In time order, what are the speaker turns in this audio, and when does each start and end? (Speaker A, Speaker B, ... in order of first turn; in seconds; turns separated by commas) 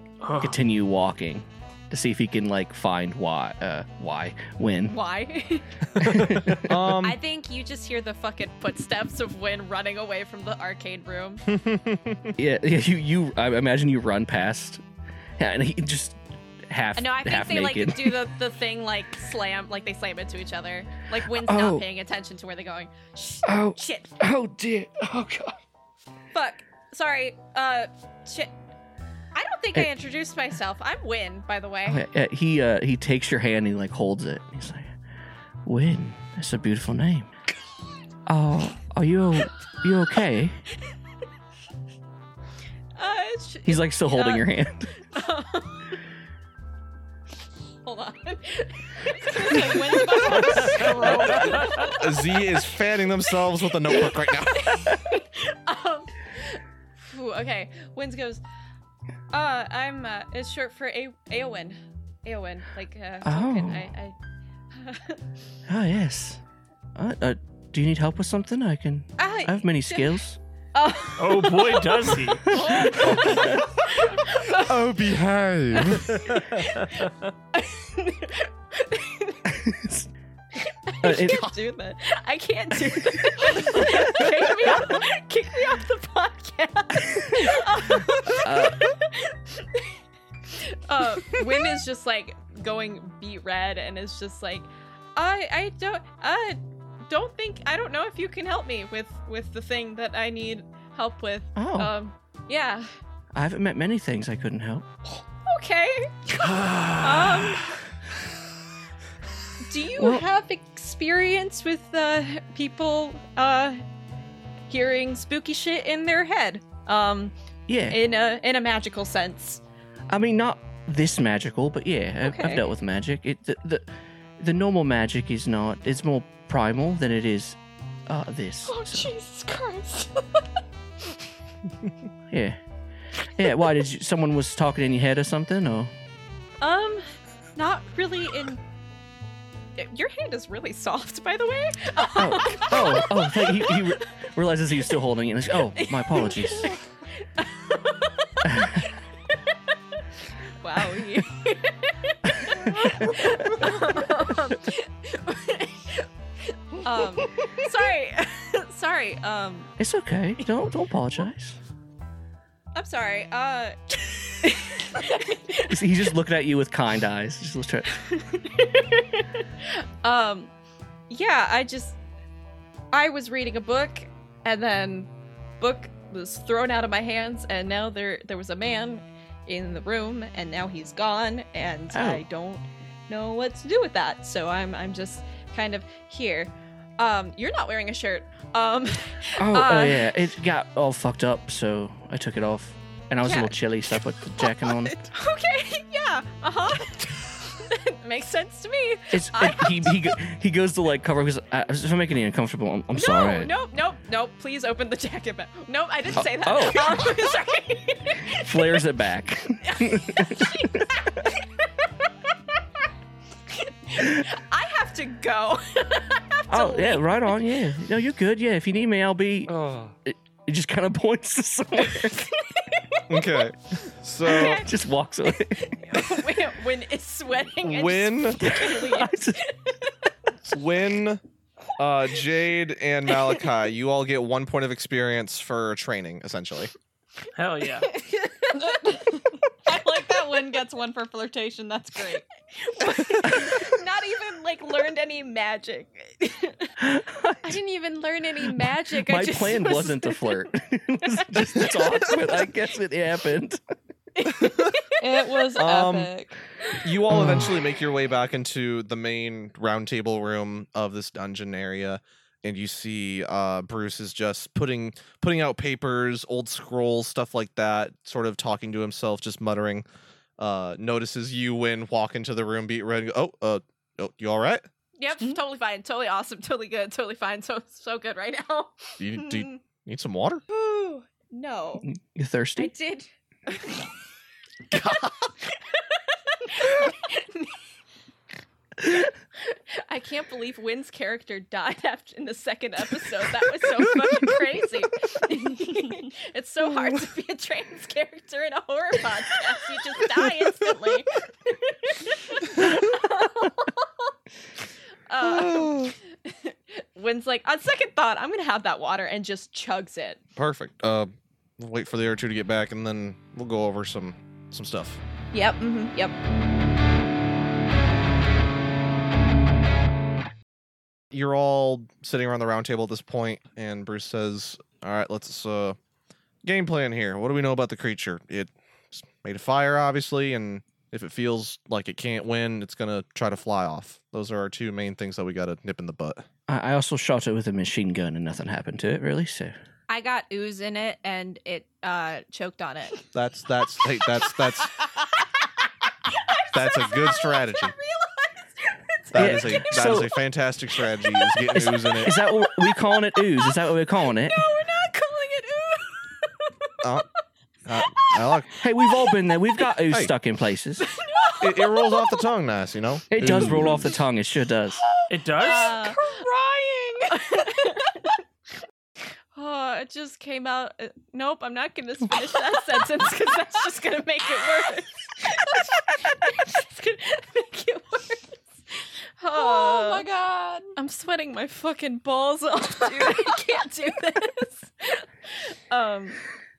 Speaker A: 0.2-0.6, Speaker B: 0.4-5.0, Speaker C: 4.9-5.7, Speaker B: 6.0-6.9, Speaker D: 6.0-7.2, Speaker C: 7.0-11.4, Speaker D: 11.5-12.3, Speaker B: 12.4-14.8, Speaker B: 15.4-18.2, Speaker C: 16.9-24.1, Speaker B: 21.4-21.9, Speaker B: 23.4-25.6, Speaker C: 26.3-28.5, Speaker C: 29.4-32.0, Speaker B: 31.9-34.9, Speaker B: 35.6-37.3, Speaker B: 38.3-40.6, Speaker C: 43.0-46.0, Speaker B: 43.7-44.9, Speaker C: 47.8-52.8, Speaker D: 50.5-54.9, Speaker C: 53.8-58.4, Speaker C: 59.3-64.2, Speaker B: 63.2-63.9, Speaker C: 64.7-65.2, Speaker B: 65.7-66.4, Speaker B: 67.0-70.4, Speaker C: 69.2-70.2, Speaker C: 70.7-74.8, Speaker A: 71.2-72.5, Speaker B: 72.5-73.6, Speaker D: 74.6-76.5, Speaker C: 75.7-79.5, Speaker A: 76.8-77.1, Speaker B: 79.5-80.1, Speaker C: 80.5-89.9, Speaker B: 81.0-81.5, Speaker B: 83.6-84.7, Speaker B: 87.1-87.6, Speaker B: 88.4-88.9, Speaker C: 90.5-102.9, Speaker B: 101.5-101.9, Speaker B: 103.3-104.9, Speaker C: 105.5-107.8, Speaker A: 106.4-107.7, Speaker C: 109.6-113.8, Speaker B: 110.0-110.3, Speaker C: 114.7-117.3, Speaker B: 117.7-118.0, Speaker C: 117.9-119.6, Speaker B: 120.1-123.9, Speaker C: 122.2-122.6, Speaker B: 124.4-129.1, Speaker C: 128.7-130.0, Speaker B: 132.3-132.6, Speaker B: 133.4-135.9, Speaker C: 136.6-137.0, Speaker C: 137.6-138.6, Speaker C: 139.8-144.0, Speaker B: 142.2-146.8, Speaker C: 145.7-149.7, Speaker B: 148.4-148.8, Speaker C: 150.6-159.7, Speaker B: 152.4-153.7, Speaker B: 159.8-161.6, Speaker C: 162.7-165.8, Speaker B: 165.7-167.9, Speaker C: 167.9-170.5, Speaker C: 171.1-172.0, Speaker C: 172.9-190.1, Speaker B: 181.9-182.2, Speaker B: 189.4-195.1, Speaker C: 193.2-193.5, Speaker C: 194.5-200.1, Speaker B: 199.1-203.5, Speaker C: 202.9-208.7, Speaker B: 206.1-207.1, Speaker B: 208.3-211.0, Speaker C: 209.6-212.3, Speaker C: 213.5-217.3, Speaker B: 214.0-214.3, Speaker B: 216.5-222.3, Speaker D: 219.5-219.9, Speaker C: 222.2-223.4, Speaker D: 223.1-224.6, Speaker C: 224.3-224.6, Speaker B: 224.3-226.1, Speaker C: 225.3-229.9, Speaker D: 227.6-228.5, Speaker B: 228.4-229.4, Speaker D: 230.4-231.2, Speaker D: 231.8-236.7, Speaker A: 237.3-237.9, Speaker C: 237.8-239.1, Speaker E: 238.5-242.2, Speaker C: 242.6-246.7, Speaker B: 246.8-247.6, Speaker C: 247.4-250.5, Speaker B: 248.4-253.6, Speaker C: 251.1-252.5, Speaker C: 254.2-255.6, Speaker D: 254.3-254.8, Speaker E: 255.0-256.4, Speaker D: 255.6-256.1, Speaker D: 256.8-269.9, Speaker B: 257.1-257.5, Speaker D: 270.4-274.6, Speaker C: 274.9-279.6, Speaker D: 279.0-280.4, Speaker C: 280.5-281.9, Speaker B: 281.8-282.7, Speaker C: 282.6-283.9, Speaker D: 284.7-285.3, Speaker C: 285.7-287.6, Speaker C: 289.4-304.1, Speaker C: 305.1-310.2, Speaker D: 305.2-305.9, Speaker D: 310.4-315.0, Speaker C: 315.3-316.2, Speaker D: 321.1-325.8, Speaker D: 326.4-336.2, Speaker B: 336.5-339.5, Speaker C: 339.9-343.1, Speaker D: 343.1-344.7, Speaker C: 344.3-345.5, Speaker C: 346.1-349.6, Speaker D: 346.5-347.7, Speaker D: 349.1-352.1, Speaker B: 349.1-350.1, Speaker C: 350.9-351.4, Speaker B: 351.5-354.4, Speaker C: 352.1-353.5, Speaker C: 354.1-356.7, Speaker D: 357.7-358.5, Speaker C: 357.8-359.7, Speaker B: 358.6-360.9, Speaker C: 360.8-362.3, Speaker D: 361.4-363.8, Speaker B: 363.1-364.8, Speaker A: 363.2-363.7, Speaker E: 365.0-367.5, Speaker A: 365.1-365.8, Speaker C: 365.4-366.2, Speaker C: 367.1-368.2, Speaker C: 369.3-380.1, Speaker E: 379.3-380.7, Speaker C: 380.8-386.2